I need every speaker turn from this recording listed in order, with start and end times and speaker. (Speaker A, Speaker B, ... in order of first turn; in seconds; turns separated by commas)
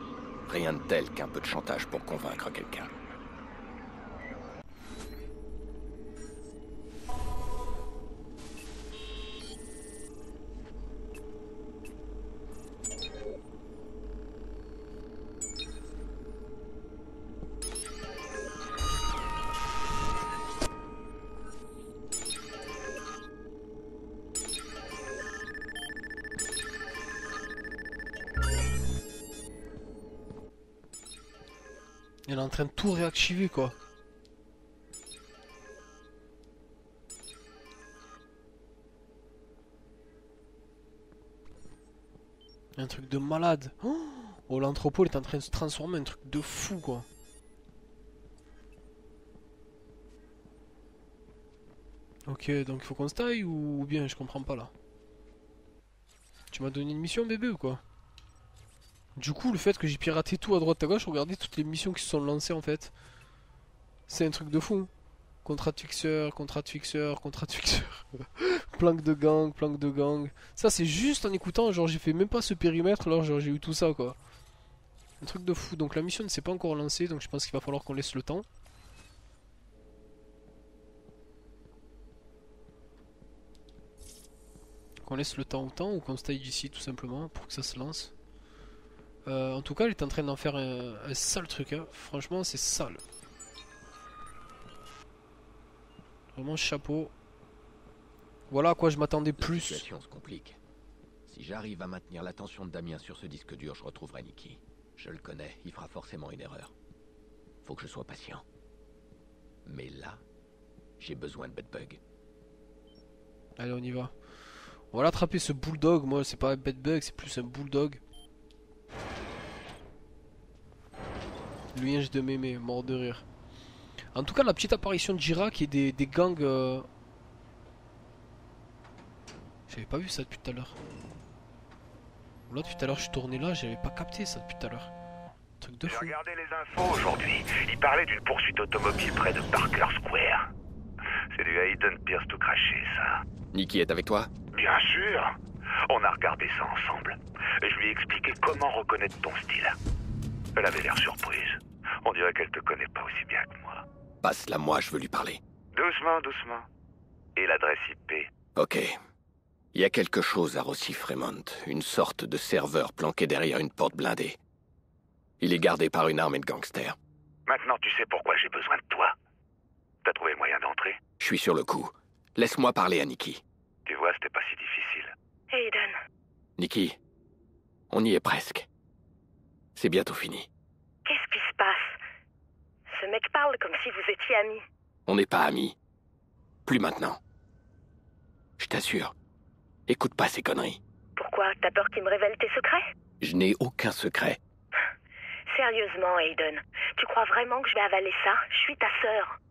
Speaker A: 0.5-2.9, Speaker B: 32.3-33.8, Speaker B: 42.8-47.1, Speaker B: 52.3-54.7, Speaker B: 56.5-57.8, Speaker B: 59.2-62.9, Speaker B: 64.1-64.9, Speaker B: 65.4-74.2, Speaker B: 75.2-78.5, Speaker B: 85.0-88.1, Speaker B: 89.3-93.0, Speaker B: 96.3-97.1, Speaker B: 98.5-99.9, Speaker A: 99.4-100.6, Speaker A: 101.3-106.7, Speaker A: 107.6-108.4, Speaker A: 109.7-110.2, Speaker A: 111.0-112.0, Speaker B: 113.6-114.1, Speaker B: 114.9-118.0, Speaker B: 121.7-123.3, Speaker B: 124.1-126.9, Speaker B: 129.7-130.8, Speaker B: 132.5-134.9, Speaker B: 135.6-136.2, Speaker C: 135.8-140.5, Speaker C: 141.3-143.2, Speaker A: 143.5-144.3, Speaker C: 144.5-145.4, Speaker C: 145.9-149.8, Speaker C: 150.6-153.8, Speaker A: 154.2-155.4, Speaker C: 155.7-156.7, Speaker C: 157.4-158.3, Speaker A: 158.6-159.0, Speaker A: 159.7-164.4, Speaker A: 165.4-167.0, Speaker C: 167.5-169.2, Speaker C: 170.0-171.0, Speaker A: 171.2-173.4, Speaker C: 173.9-175.1, Speaker D: 175.5-176.0, Speaker A: 176.6-177.0, Speaker A: 177.9-178.7, Speaker A: 179.8-180.5, Speaker D: 181.1-182.0, Speaker D: 182.9-184.6, Speaker A: 185.1-185.8, Speaker A: 186.7-187.2, Speaker A: 188.6-189.1, Speaker A: 189.9-190.8, Speaker D: 191.2-192.9, Speaker A: 193.2-194.4, Speaker D: 195.5-199.4